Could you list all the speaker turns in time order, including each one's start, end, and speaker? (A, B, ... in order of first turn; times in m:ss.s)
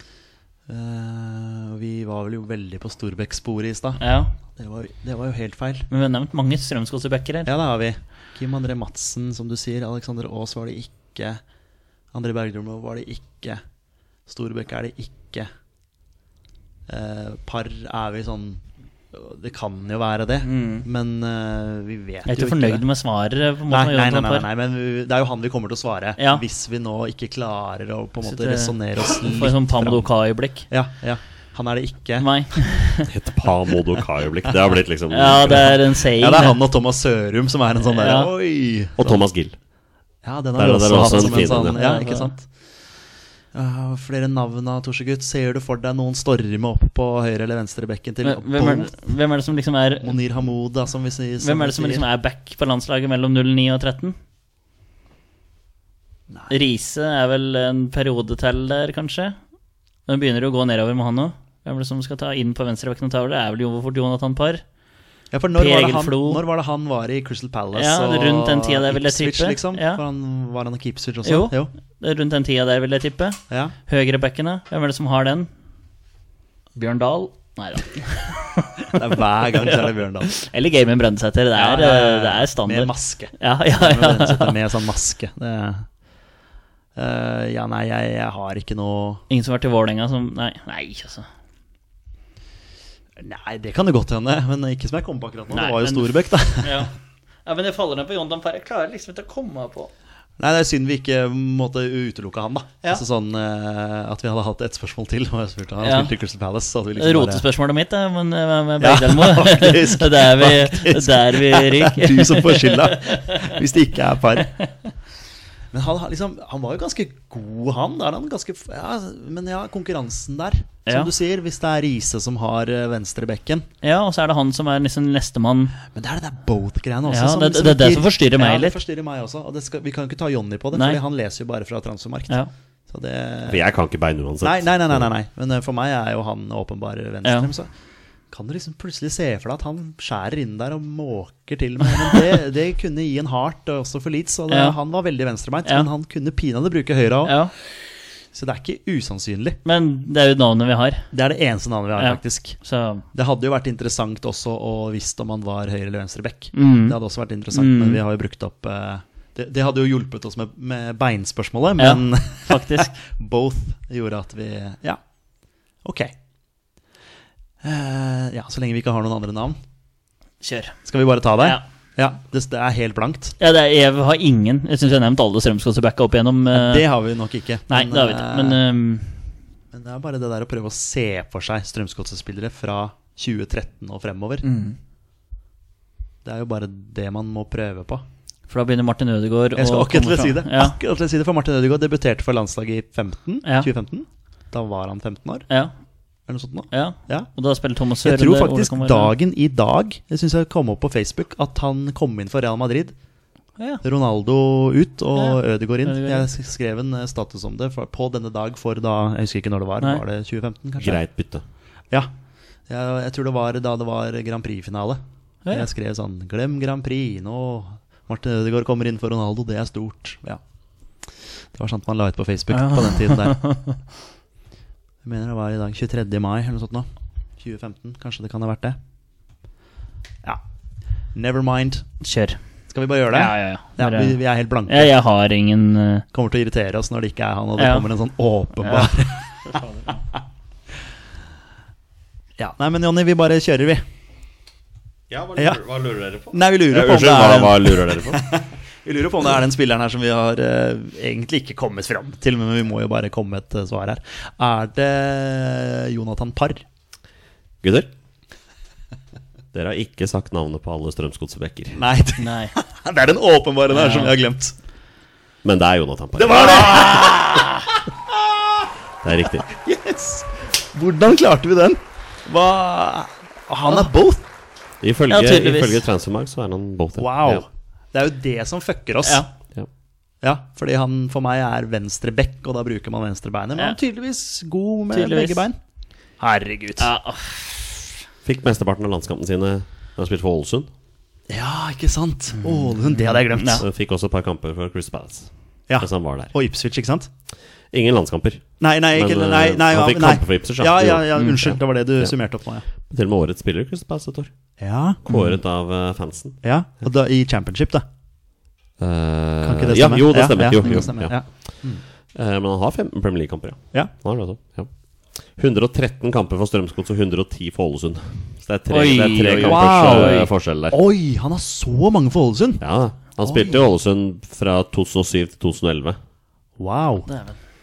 0:00.7-0:04.0 A
0:04.0-0:04.3 B
0:04.5-0:05.9 A
0:05.9-0:07.5 B
0:07.4-0:11.4 A
0:12.1-0:13.6 A
0:14.3-0:15.5 A
0:16.9-0:22.8 A
0:20.4-0:20.8 B
0:22.3-0:24.4 B
0:23.7-0:30.1 A
0:28.2-0:30.7 B
0:30.7-0:32.3 A
0:32.2-0:33.1 B
0:33.0-0:35.8 C
0:35.1-0:36.6 B
0:36.0-0:39.2 A
0:37.8-0:38.3 B
0:39.0-0:39.6 C
0:40.2-0:42.5 A
0:40.6-0:41.8 C
0:40.9-0:42.3 B
0:43.5-0:49.1 A
0:48.2-0:50.2 B
0:50.0-0:52.1 A
0:51.4-0:54.2 B
0:56.5-0:59.4 B
1:00.0-1:04.6 B
1:05.3-1:11.7 A
1:05.6-1:06.4 B
1:07.7-1:10.0 B
1:11.2-1:15.5 B
1:13.5-1:13.7 A
1:16.8-1:19.0 B
1:18.9-1:20.3 A
1:19.6-1:24.6 B
1:21.5-1:25.9 A
1:27.0-1:29.2 A
1:29.3-1:31.3 B
1:33.2-1:36.8 A
1:35.5-1:36.9 B
1:37.4-1:39.9 B
1:40.4-1:47.4 A
1:45.8-1:46.1 B
1:47.0-1:53.5 B
1:48.8-1:54.6 A
1:55.7-2:03.7 A
2:03.8-2:05.7 B
2:05.9-2:12.4 A
2:07.1-2:08.8 B
2:10.7-2:11.0 B
2:12.9-2:13.6 A
2:13.5-2:15.1 C
2:14.4-2:17.7 A
2:17.2-2:17.5 B
2:18.3-2:27.5 A
2:24.5-2:24.8 B
2:27.2-2:27.5 B
2:28.3-2:29.6 A
2:29.6-2:31.1 B
2:31.1-2:32.6 A
2:32.0-2:33.0 B
2:33.1-2:45.0 A
2:36.5-2:37.0 B
2:37.5-2:38.0 B
2:41.8-2:42.9 B
2:45.8-2:46.1 A
2:47.6-2:49.6 A
2:50.4-2:50.8 B
2:50.8-2:53.4 A
2:51.4-2:51.6 B
2:53.4-2:56.9 B
2:56.5-2:58.6 A
2:57.7-2:59.2 B
2:59.7-3:04.4 A
3:04.4-3:04.8 B
3:06.2-3:08.0 A
3:08.5-3:10.8 B
3:09.6-3:15.5 A
3:13.4-3:13.7 B
3:16.3-3:17.3 A
3:16.7-3:19.1 B
3:18.0-3:22.9 A
3:23.8-3:31.0 A
3:25.2-3:26.3 B
3:30.8-3:31.4 C
3:32.7-3:40.4 A
3:41.0-3:43.4 A
3:42.5-3:43.8 B
3:45.0-3:46.9 A
3:47.4-3:48.8 A
3:51.1-3:51.8 A
3:52.0-3:52.4 B
3:52.7-3:54.9 A
3:53.1-3:56.0 B
3:56.1-3:59.6 A
3:57.6-3:57.8 B
3:58.6-3:58.9 B
3:59.4-4:00.0 B
4:02.4-4:03.8 A
4:05.1-4:08.2 C
4:05.4-4:05.6 A
4:06.3-4:16.6 A
4:17.6-4:17.9 C
4:19.5-4:21.8 C
4:21.8-4:24.5 A
4:22.2-4:22.5 B
4:23.7-4:24.1 B
4:25.4-4:27.1 C
4:26.2-4:28.6 A
4:29.0-4:29.4 C
4:29.4-4:34.2 A
4:34.8-4:37.4 C
4:35.1-4:35.8 B
4:37.0-4:39.2 A
4:39.0-4:39.3 B
4:40.2-4:45.6 A
4:44.9-4:45.4 B
4:46.2-4:46.9 A
4:46.8-4:47.9 B
4:48.2-4:50.7 C
4:51.3-4:53.6 A
4:52.4-4:53.6 B
4:53.6-4:56.3 C
4:55.7-4:57.1 A
4:57.7-5:02.1 C
4:58.6-5:02.6 A
5:02.8-5:04.3 C
5:04.6-5:05.0 A
5:05.0-5:06.4 C
5:06.4-5:07.8 A
5:08.8-5:11.1 C
5:09.4-5:11.8 A
5:10.6-5:10.9 B
5:12.1-5:14.7 C
5:15.3-5:20.7 C
5:18.7-5:20.3 B
5:19.3-5:22.6 A
5:22.6-5:26.0 C
5:23.2-5:23.7 A
5:26.6-5:27.1 A
5:27.1-5:27.4 B